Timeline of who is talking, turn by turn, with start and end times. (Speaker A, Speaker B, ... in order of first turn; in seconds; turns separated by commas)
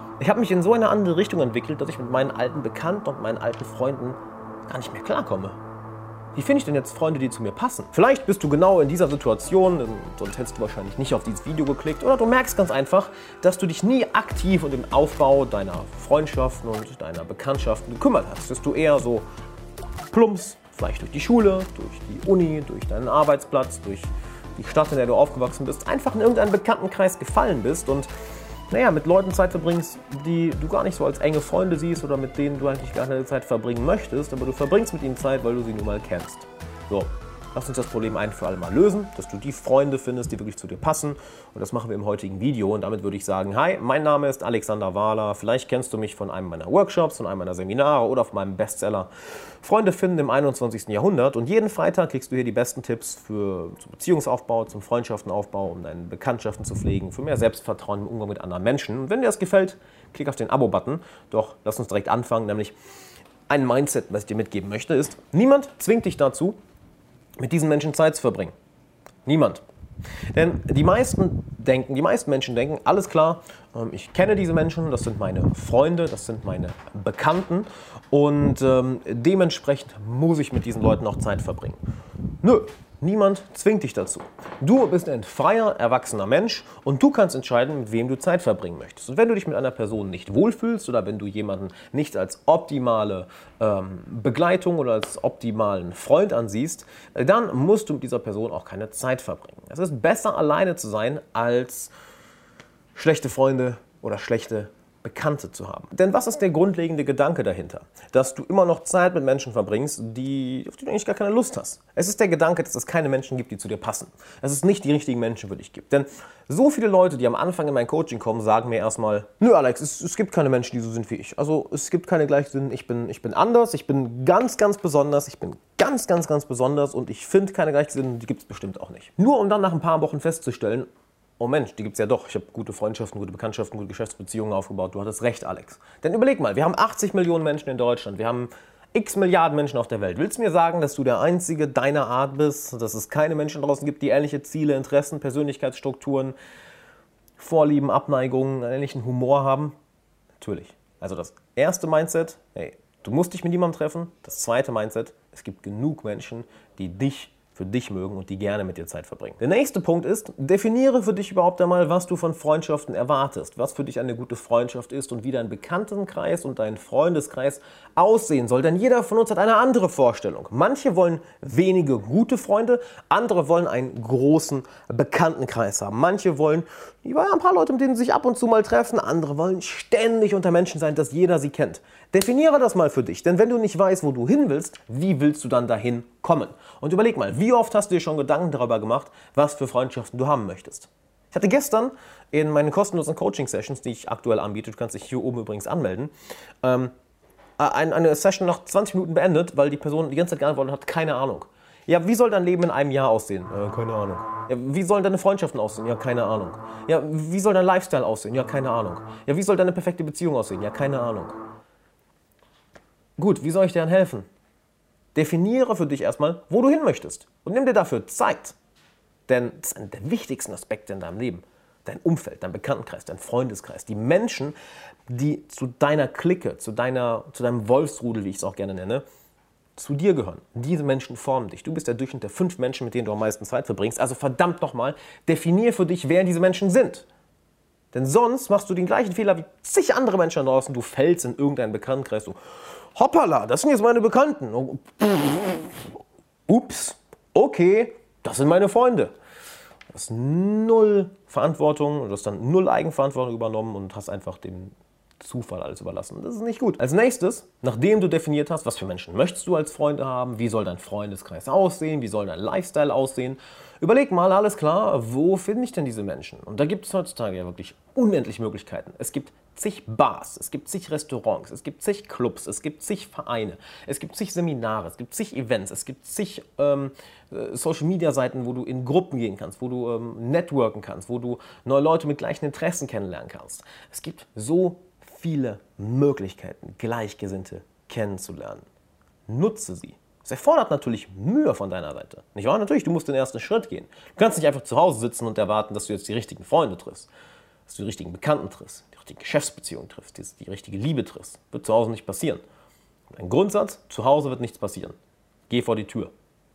Speaker A: 0.2-5.6, Speaker A: 6.3-19.2, Speaker A: 20.1-28.1, Speaker A: 28.7-62.7, Speaker A: 63.5-66.6, Speaker A: 67.4-68.5, Speaker A: 69.2-69.6, Speaker A: 70.3-81.8, Speaker A: 82.4-101.9, Speaker A: 102.9-130.9, Speaker A: 131.4-146.3, Speaker A: 147.4-149.7, Speaker A: 150.4-196.1, Speaker A: 196.6-196.9, Speaker A: 197.6-211.4, Speaker A: 213.2-214.3, Speaker A: 215.1-218.6, Speaker A: 219.3-224.5, Speaker A: 225.1-229.0, Speaker A: 229.8-237.1, Speaker A: 237.9-242.4, Speaker A: 242.9-245.9, Speaker A: 246.5-249.1, Speaker A: 249.9-288.6, Speaker A: 289.3-297.1, Speaker A: 297.7-302.4, Speaker A: 303.1-304.9, Speaker A: 305.5-306.1